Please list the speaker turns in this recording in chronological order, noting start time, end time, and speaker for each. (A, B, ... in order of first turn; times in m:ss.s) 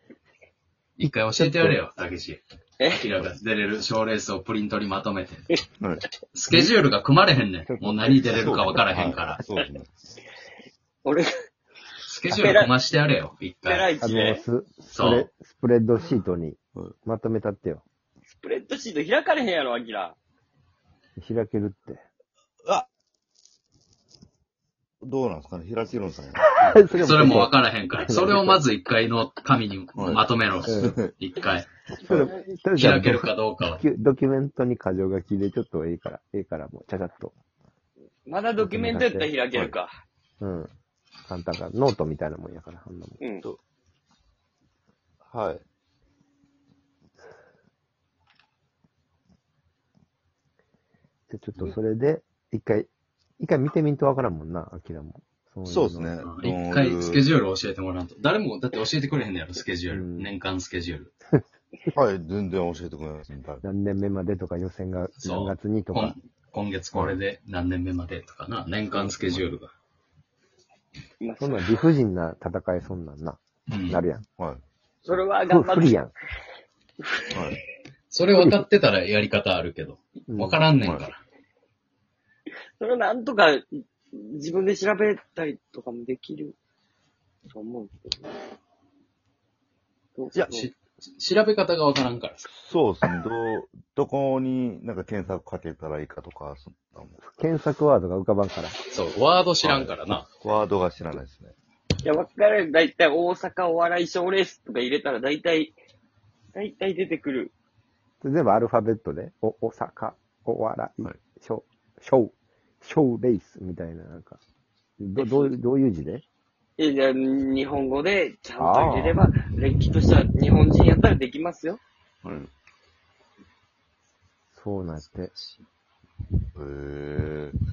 0:01.0-0:05.6 A
0:01.0-0:01.8 B
0:05.8-0:06.0 C
0:06.3-0:09.4 A
0:07.6-0:08.8 B
0:08.3-0:09.9 C
0:11.0-0:11.3 D
0:12.0-0:13.9 A
0:12.3-0:12.7 D
0:13.6-0:14.4 D
0:14.0-0:17.8 B
0:14.9-0:15.3 A
0:18.3-0:20.2 D
0:21.2-0:22.0 B
0:25.0-0:26.5 C
0:26.4-0:28.6 B
0:26.6-0:31.7 A
0:29.9-0:30.2 C
0:30.6-0:31.0 B
0:30.8-0:31.1 C
0:31.9-0:37.3 B
0:32.7-0:33.8 A
0:38.2-0:39.9 D
0:38.6-0:39.3 B
0:40.4-0:40.7 B
0:41.2-0:43.2 B
0:43.2-0:43.4 D
0:45.2-0:45.6 C
0:51.3-0:56.1 B
0:55.6-0:57.3 C
0:56.2-1:01.1 A
0:59.9-1:00.3 B
1:01.9-1:03.6 C
1:03.6-1:06.2 B
1:05.2-1:09.7 A
1:08.9-1:09.4 C
1:11.2-1:11.7 D
1:11.4-1:14.2 B
1:13.7-1:14.0 A
1:15.0-1:16.0 D
1:15.5-1:16.1 B
1:17.0-1:17.4 D
1:17.3-1:17.6 C
1:18.1-1:21.2 A
1:18.3-1:18.6 B
1:20.3-1:20.7 B
1:20.8-1:21.1 C
1:22.8-1:26.6 D
1:27.5-1:28.2 D
1:30.2-1:30.7 D
1:30.3-1:30.6 C
1:30.5-1:32.5 A
1:32.5-1:37.2 C
1:37.2-1:38.8 B
1:38.9-1:40.3 A
1:39.6-1:41.5 C
1:42.0-1:45.8 D
1:46.5-1:47.5 D
1:48.2-1:54.4 B
1:55.0-1:56.2 B
1:55.2-1:55.5 D
1:56.8-2:01.8 D
1:58.6-1:59.2 B
2:02.2-2:02.5 C
2:04.5-2:05.3 B
2:05.3-2:05.6 A
2:06.5-2:07.6 C